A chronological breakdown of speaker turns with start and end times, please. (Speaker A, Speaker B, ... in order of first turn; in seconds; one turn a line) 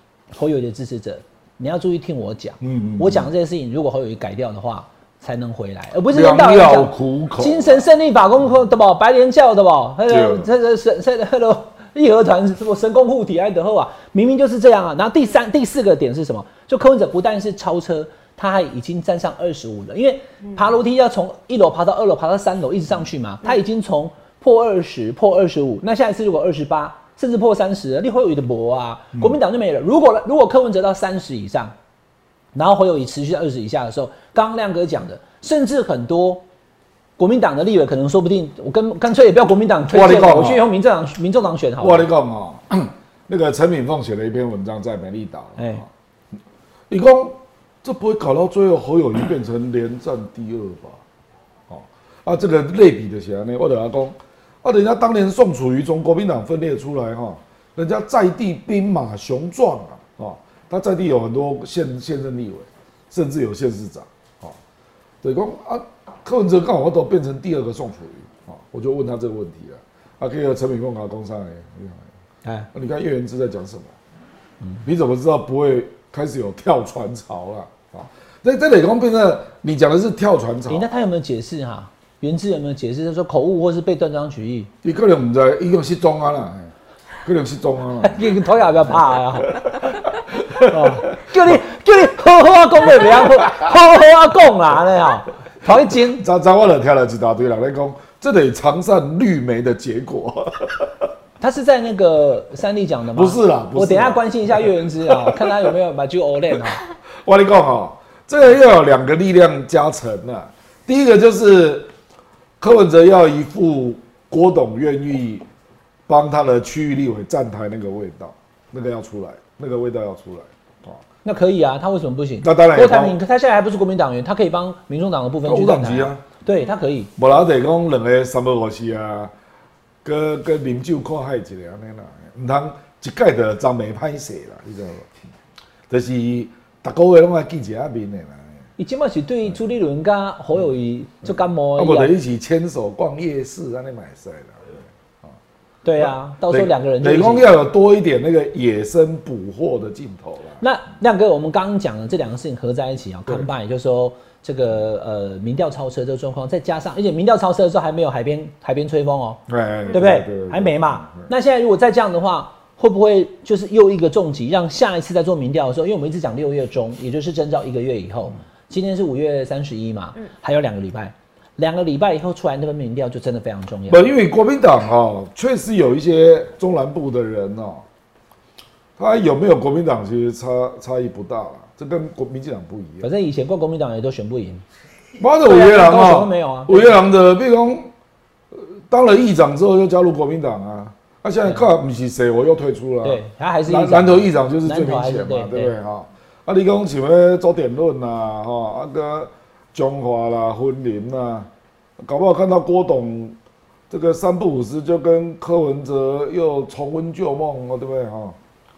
Speaker A: 0.3-31.7
Speaker B: 2.6-3.3
Speaker B: 6.1-7.8
Speaker B: 10.1-10.5
Speaker A: 32.5-36.4
Speaker A: 37.2-42.1
Speaker B: 39.9-40.6
Speaker B: 41.8-45.9
Speaker A: 45.6-45.8
Speaker B: 46.9-51.0
Speaker B: 51.7-64.6
Speaker B: 65.2-72.0
Speaker B: 72.7-73.9
Speaker B: 74.8-80.9
Speaker A: 80.7-84.7
Speaker B: 84.8-86.7
Speaker B: 87.2-88.4
Speaker A: 88.0-89.8
Speaker B: 89.6-91.5
Speaker A: 90.5-96.2
Speaker B: 96.0-101.1
Speaker A: 101.4-106.8
Speaker B: 103.1-105.7
Speaker B: 107.2-111.9
Speaker B: 112.6-115.4
Speaker B: 116.1-121.0
Speaker A: 121.2-127.1
Speaker B: 122.4-123.2
Speaker B: 125.4-126.2
Speaker B: 127.2-129.3
Speaker B: 130.0-135.1
Speaker B: 135.9-138.4
Speaker A: 138.8-142.1
Speaker B: 141.8-145.3
Speaker A: 145.8-147.5
Speaker B: 146.0-150.6
Speaker A: 150.6-174.1
Speaker B: 159.5-161.3
Speaker B: 173.9-177.8
Speaker B: 179.0-183.1
Speaker A: 183.0-184.6
Speaker B: 185.2-187.9
Speaker A: 185.4-187.0
Speaker B: 188.5-201.5
Speaker A: 193.0-195.7
Speaker B: 202.0-203.4
Speaker B: 203.9-208.4